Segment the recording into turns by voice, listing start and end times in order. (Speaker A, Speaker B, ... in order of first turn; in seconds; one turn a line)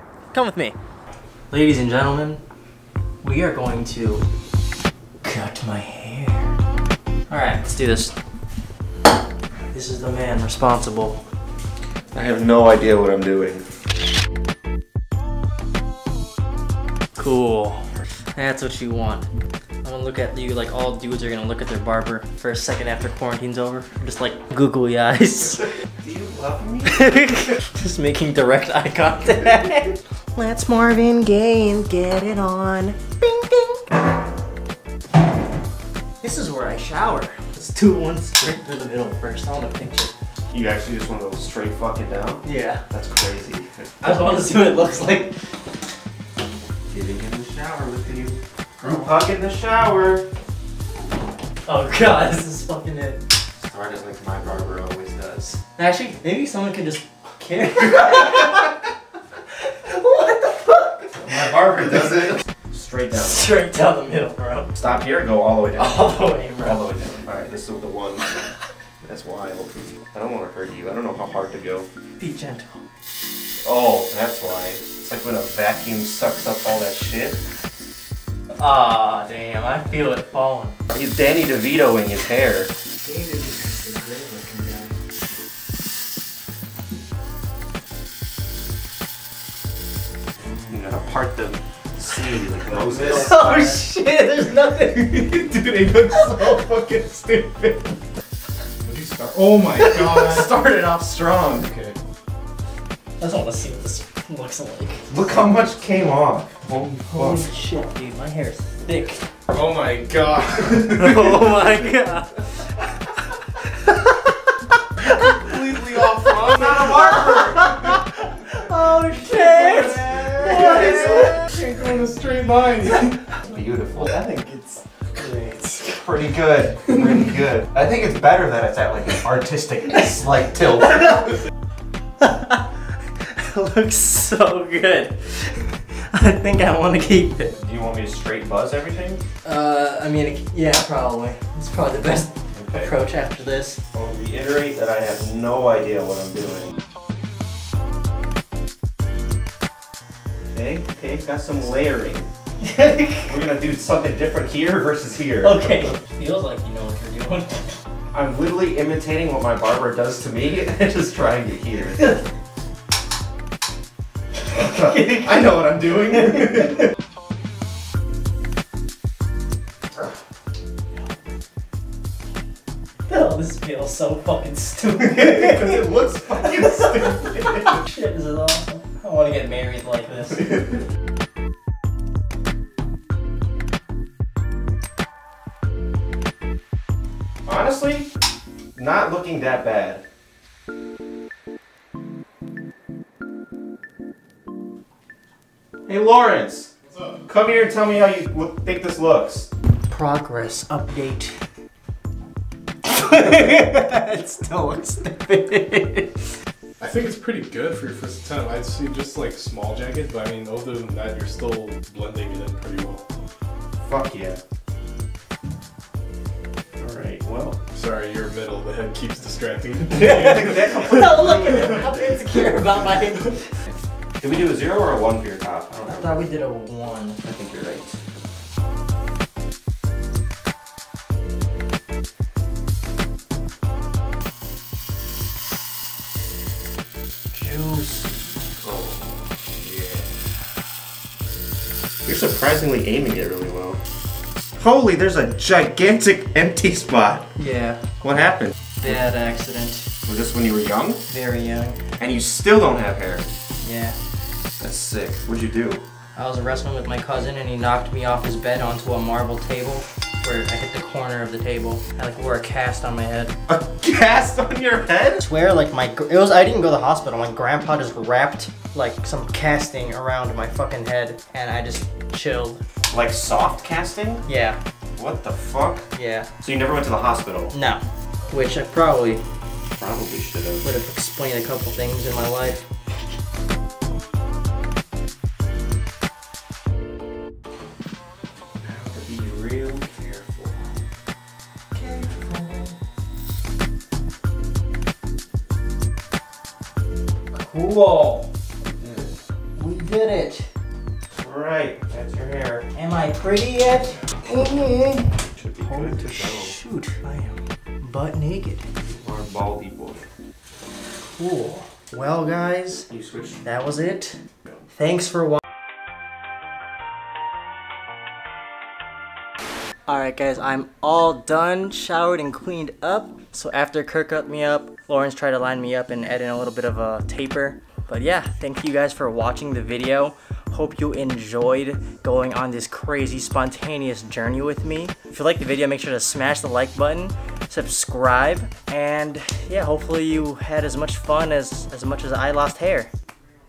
Speaker A: 0.3-0.8
Speaker A: 1.5-2.4
Speaker A: 3.2-4.2
Speaker A: 5.2-6.5
Speaker A: 7.3-8.1
Speaker A: 9.7-11.2
Speaker B: 12.1-13.6
Speaker A: 17.2-19.3
Speaker A: 19.8-25.7
Speaker B: 26.0-27.0
Speaker A: 26.9-33.9
Speaker A: 36.2-40.1
Speaker B: 40.5-43.7
Speaker A: 42.4-42.8
Speaker A: 44.0-45.3
Speaker B: 46.9-50.3
Speaker A: 51.6-53.2
Speaker B: 53.6-55.6
Speaker A: 55.8-58.8
Speaker A: 59.7-62.4
Speaker B: 61.2-63.5
Speaker A: 63.1-64.7
Speaker B: 64.7-68.2
Speaker A: 65.8-66.8
Speaker B: 69.0-71.9
Speaker A: 72.2-72.8
Speaker B: 73.6-77.4
Speaker A: 78.5-80.7
Speaker B: 80.9-82.7
Speaker C: 83.0-84.9
Speaker B: 90.7-93.8
Speaker A: 92.8-95.5
Speaker C: 95.0-97.9
Speaker A: 96.1-96.7
Speaker C: 98.8-100.5
Speaker B: 99.8-101.7
Speaker C: 101.6-102.0
Speaker A: 103.2-105.0
Speaker B: 105.1-107.5
Speaker A: 107.1-109.2
Speaker C: 109.5-111.5
Speaker A: 110.9-112.6
Speaker A: 113.7-114.5
Speaker C: 115.0-118.0
Speaker A: 115.1-115.5
Speaker B: 116.5-117.5
Speaker A: 116.7-121.5
Speaker C: 119.2-123.2
Speaker B: 119.8-120.9
Speaker B: 123.4-124.2
Speaker C: 124.1-125.9
Speaker A: 125.2-125.6
Speaker B: 125.8-131.4
Speaker A: 132.2-132.6
Speaker A: 133.2-137.6
Speaker B: 137.6-139.2
Speaker A: 139.4-143.8
Speaker B: 142.5-142.9
Speaker B: 143.9-146.8
Speaker B: 150.5-152.3
Speaker A: 152.6-153.3
Speaker B: 153.3-155.9
Speaker A: 155.4-157.8
Speaker B: 158.1-162.2
Speaker B: 164.5-166.9
Speaker A: 164.6-165.4
Speaker A: 173.1-175.8
Speaker B: 175.0-177.8
Speaker A: 176.6-176.9
Speaker A: 177.5-180.7
Speaker B: 187.4-188.1
Speaker B: 188.7-190.0
Speaker B: 195.9-196.7
Speaker B: 197.2-199.5
Speaker A: 199.9-201.3
Speaker A: 202.8-206.2
Speaker C: 206.8-213.0
Speaker B: 213.8-214.4
Speaker B: 216.8-217.6
Speaker C: 217.7-221.2
Speaker B: 219.9-222.2
Speaker A: 220.0-223.5
Speaker B: 224.2-226.3
Speaker A: 225.8-227.2
Speaker B: 227.2-228.2
Speaker A: 237.3-238.4
Speaker B: 238.6-240.1
Speaker B: 242.0-243.8
Speaker B: 244.6-247.3
Speaker A: 247.3-247.8
Speaker B: 248.0-249.0
Speaker A: 248.8-249.9
Speaker B: 250.0-251.0
Speaker A: 251.1-251.8
Speaker B: 252.0-253.3
Speaker A: 253.6-253.9
Speaker B: 254.6-255.8
Speaker A: 256.1-263.3
Speaker B: 263.5-265.2
Speaker A: 265.2-272.6
Speaker B: 272.9-274.2
Speaker A: 274.2-274.6
Speaker B: 275.0-275.8
Speaker A: 275.9-276.3
Speaker B: 276.4-277.5
Speaker A: 277.5-279.2
Speaker B: 279.7-280.6
Speaker A: 280.6-282.7
Speaker B: 288.6-290.7
Speaker A: 291.7-292.7
Speaker A: 297.3-298.3
Speaker B: 298.8-299.1
Speaker A: 299.6-300.5
Speaker B: 301.1-302.7
Speaker A: 302.7-308.7
Speaker B: 305.3-306.6
Speaker B: 308.8-310.1
Speaker A: 311.2-312.9
Speaker B: 312.9-313.4
Speaker A: 313.4-314.2
Speaker A: 314.8-315.4
Speaker A: 319.9-342.9